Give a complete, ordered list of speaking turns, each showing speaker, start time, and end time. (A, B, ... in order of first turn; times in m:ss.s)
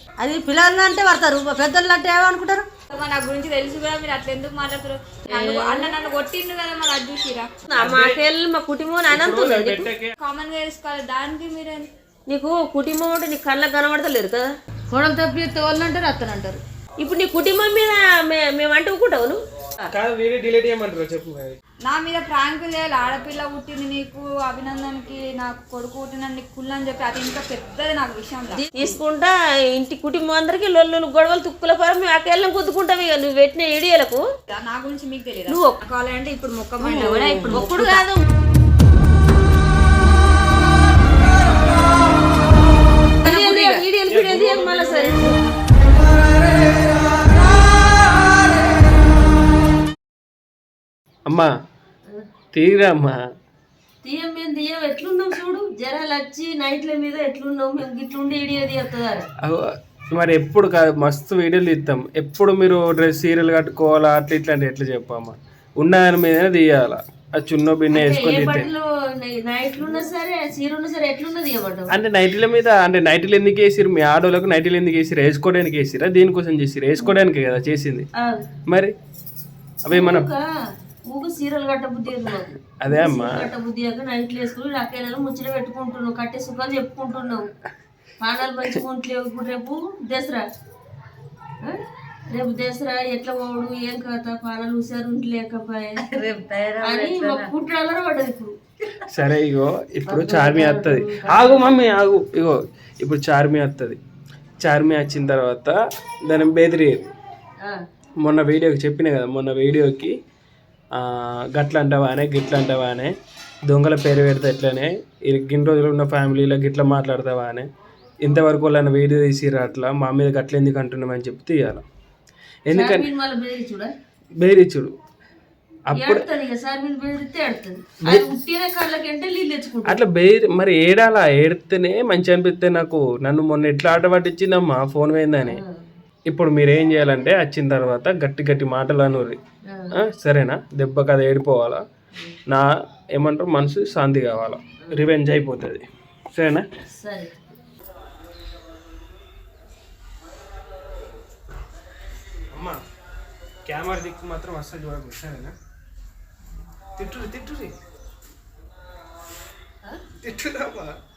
0:00.2-0:02.7 A
0:02.9-0:07.5 B
0:05.3-0:05.9 C
0:07.7-0:09.9 D
0:07.8-0:08.2 E
0:09.1-0:10.1 E
0:10.2-0:11.8 B
0:12.3-0:14.5 D
0:14.9-0:16.6 C
0:17.0-0:19.4 D
0:19.9-0:21.6 E
0:21.9-0:29.0 B
0:28.5-0:34.2 D
0:34.5-0:38.1 B
0:35.5-0:35.7 D
0:36.8-0:37.6 A
0:37.5-0:38.2 D
0:43.2-0:45.4 D
0:43.3-0:43.8 C
0:44.1-0:45.1 E
0:52.5-0:53.2 E
0:54.0-0:59.2 D
0:59.4-1:08.7 E
1:07.9-1:11.9 D
1:11.9-1:18.0 E
1:19.8-1:20.3 E
1:19.9-1:20.4 D
1:21.0-1:27.5 D
1:22.8-1:23.5 E
1:28.2-1:30.4 D
1:32.3-1:36.0 D
1:36.0-1:37.5 C
1:36.8-1:38.5 D
1:39.1-1:44.0 E
1:40.1-1:41.7 D
1:44.6-1:45.7 E
1:46.2-1:47.0 E
1:48.2-1:50.1 E
1:50.9-1:53.1 E
1:53.6-1:57.7 E
1:58.2-2:01.8 E
2:02.7-2:03.1 E
2:02.7-2:03.9 D
2:04.4-2:04.9 E
2:05.9-2:06.3 E
2:05.9-2:10.0 D
2:09.8-2:15.6 E
2:15.5-2:15.7 D
2:16.3-2:19.4 E
2:19.7-2:20.0 D
2:19.9-2:21.8 E
2:22.5-2:26.6 E
2:26.9-2:27.3 D
2:33.7-2:35.5 E
2:37.0-2:37.7 E
2:40.2-2:40.9 E